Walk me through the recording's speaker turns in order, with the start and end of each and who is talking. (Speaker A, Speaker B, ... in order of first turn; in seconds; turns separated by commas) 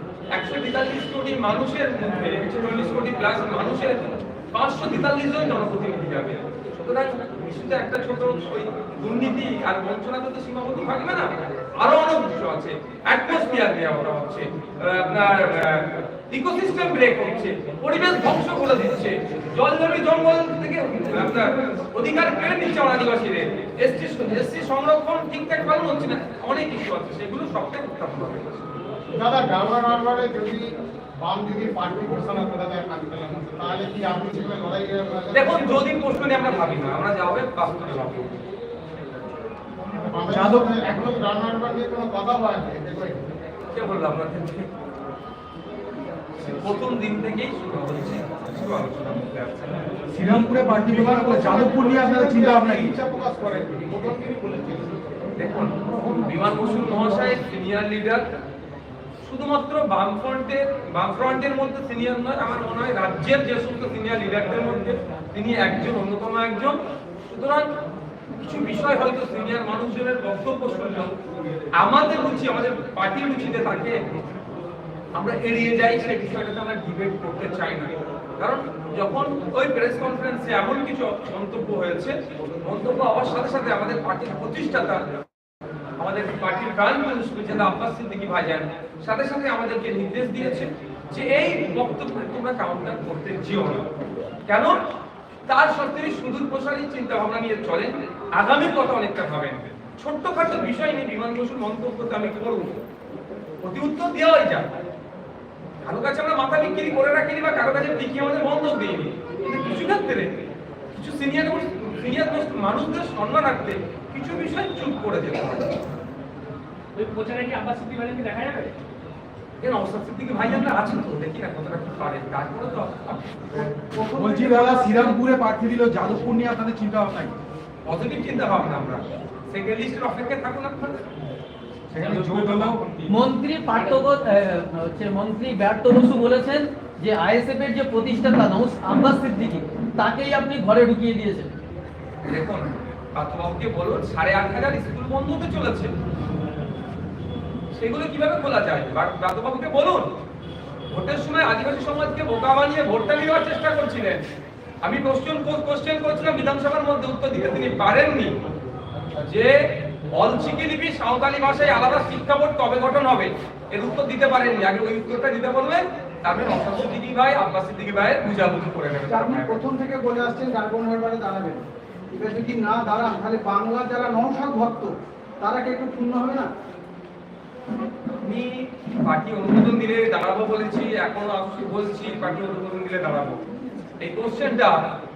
Speaker A: 0.3-28.7, Speaker B: 29.1-35.9, Speaker A: 35.3-38.3, Speaker B: 40.1-43.2, Speaker C: 40.3-40.8, Speaker A: 43.7-44.7, Speaker A: 46.5-49.8, Speaker C: 50.1-52.9, Speaker B: 50.8-55.0, Speaker A: 55.4-58.2, Speaker A: 59.2-66.8, Speaker A: 67.3-67.7, Speaker A: 68.4-71.1, Speaker A: 71.8-74.0, Speaker A: 75.1-85.0, Speaker A: 86.0-93.8, Speaker A: 94.5-94.7, Speaker A: 95.5-102.8, Speaker A: 103.6-104.7, Speaker A: 105.8-110.3, Speaker A: 110.9-115.7, Speaker D: 116.9-118.7, Speaker A: 119.6-123.2, Speaker E: 123.8-125.2, Speaker C: 124.1-127.3, Speaker A: 127.8-131.1, Speaker C: 131.9-132.8, Speaker D: 132.0-133.1, Speaker A: 132.1-132.7, Speaker F: 133.1-141.5, Speaker A: 142.2-145.9, Speaker A: 147.8-150.1, Speaker A: 150.9-154.2, Speaker A: 154.8-158.3, Speaker A: 159.2-159.5, Speaker A: 160.1-169.6, Speaker E: 169.1-176.5, Speaker A: 178.2-183.4, Speaker A: 184.0-184.9